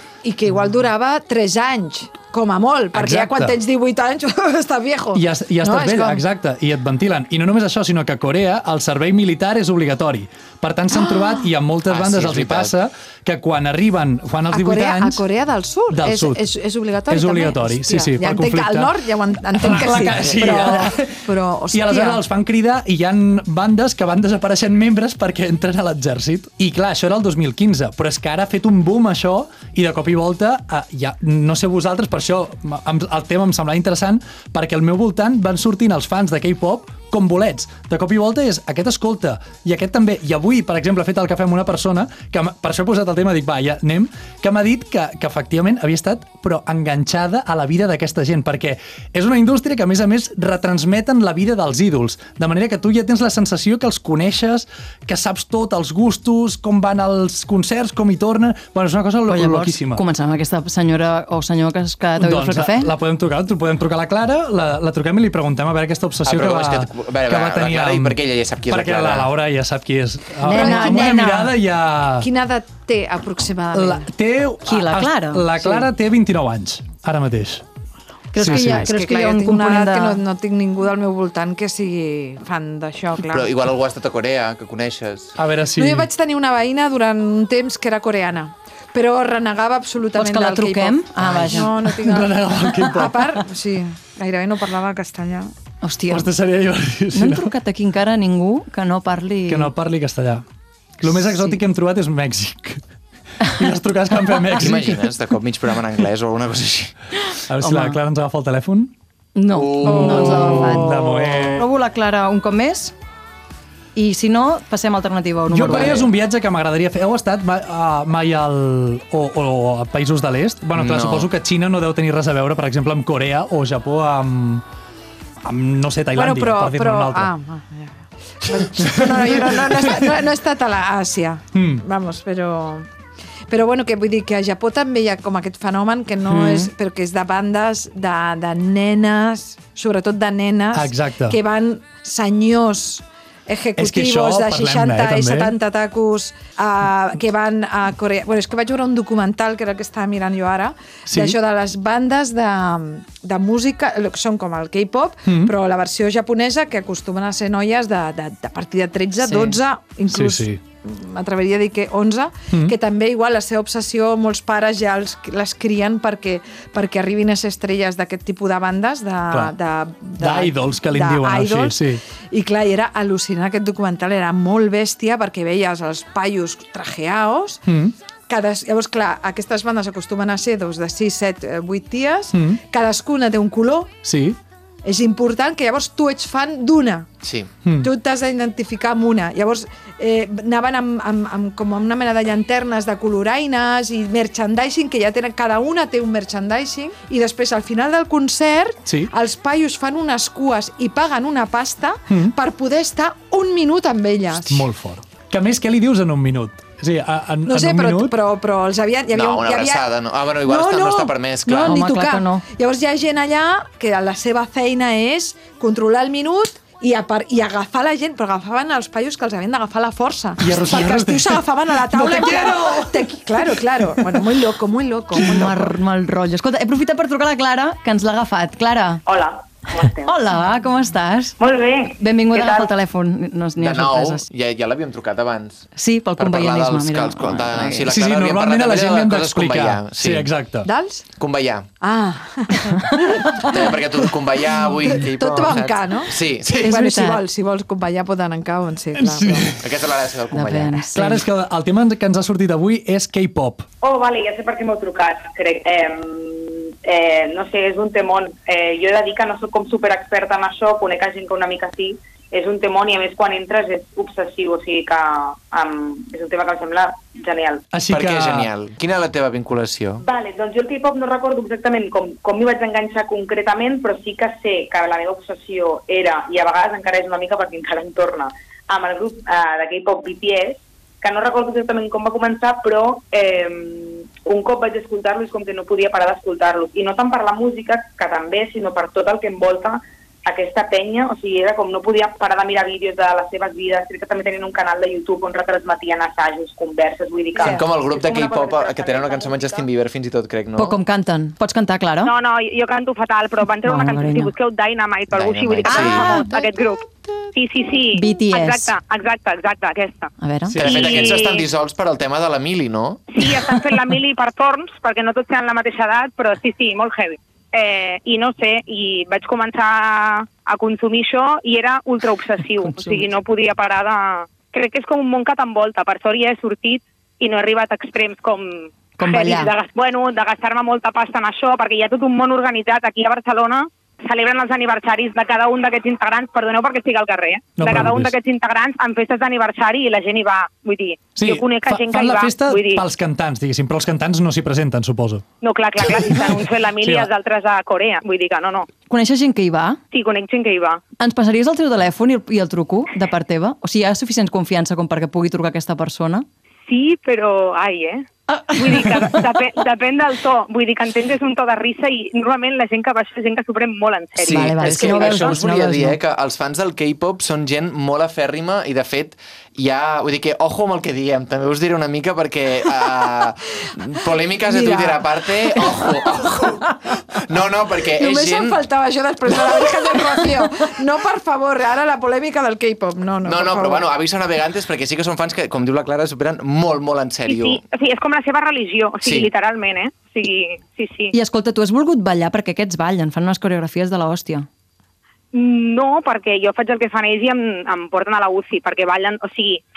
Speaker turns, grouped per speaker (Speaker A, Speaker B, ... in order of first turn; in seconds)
Speaker A: 0.2-6.2, 14.5-22.2, 70.5-71.4, 72.2-74.1, 78.4-83.6, 85.8-95.5, 126.1-132.9, 133.5-177.6, 178.3-184.0, 184.8-187.2, 187.8-204.6, 207.4-209.9, 210.4-225.7, 240.6-241.1, 241.8-243.9, 244.8-249.5, 297.4-297.6, 374.4-376.9, 377.9-383.9
Speaker B: 2.9-3.6, 5.1-15.2, 15.9-16.4, 17.1-19.0, 19.5-60.0, 62.2-72.3, 73.7-77.6, 78.4-78.9, 85.4-86.1, 91.2-93.4, 96.1-97.5, 99.5-100.4, 101.0-102.8, 103.4-105.2, 107.5-108.9, 109.8-111.7, 115.5-124.6, 125.4-127.3, 128.5-130.2, 131.5-131.8, 140.7-141.4, 143.8-145.6, 151.1-151.4, 155.3-155.5, 160.1-160.6, 169.3-169.6, 170.2-172.0, 177.7-177.9, 182.3-182.6, 184.0-184.4, 187.6-187.9, 198.8-199.1, 202.1-202.3, 204.3-208.2, 220.4-224.4, 225.2-225.5, 237.8-240.7, 248.9-249.6, 250.9-253.7, 267.7-268.5, 337.6-338.1, 341.1-345.2, 345.9-346.2, 346.8-347.1
Speaker C: 11.9-12.7, 66.2-69.3, 83.2-85.4, 104.6-106.9, 109.5-111.4, 115.7-115.9, 120.7-121.3, 187.2-187.5, 209.1-211.8, 233.6-240.3, 241.2-241.7, 243.4-246.8, 249.6-250.9, 267.9-270.0, 297.4-300.8, 305.1-306.2, 310.5-313.0, 364.2-376.6, 377.1-378.6, 383.2-387.6, 389.0-389.3
Speaker D: 59.3-62.9, 70.4-71.5, 74.6-75.9, 78.3-80.2, 90.1-91.9, 95.8-96.3, 97.1-99.7, 107.6-108.0, 109.3-112.9, 113.9-116.1, 136.3-136.7, 159.2-159.6, 211.6-212.4, 225.1-229.0, 230.0-231.4, 232.0-234.2, 235.8-237.9, 242.8-243.1, 246.6-247.2, 250.3-251.2, 300.6-302.1, 303.6-304.3, 305.6-306.4, 307.9-308.7, 310.2-310.9, 322.6-323.1, 329.0-329.5, 348.9-349.8, 351.0-356.3, 358.3-359.3, 364.3-366.0, 391.1-394.5
Speaker E: 229.1-230.1, 231.4-232.7, 253.8-267.6, 270.0-299.7, 302.0-311.5, 313.1-342.8, 345.4-348.7, 349.9-350.8, 356.7-365.4, 387.3-391.1, 395.3-399.6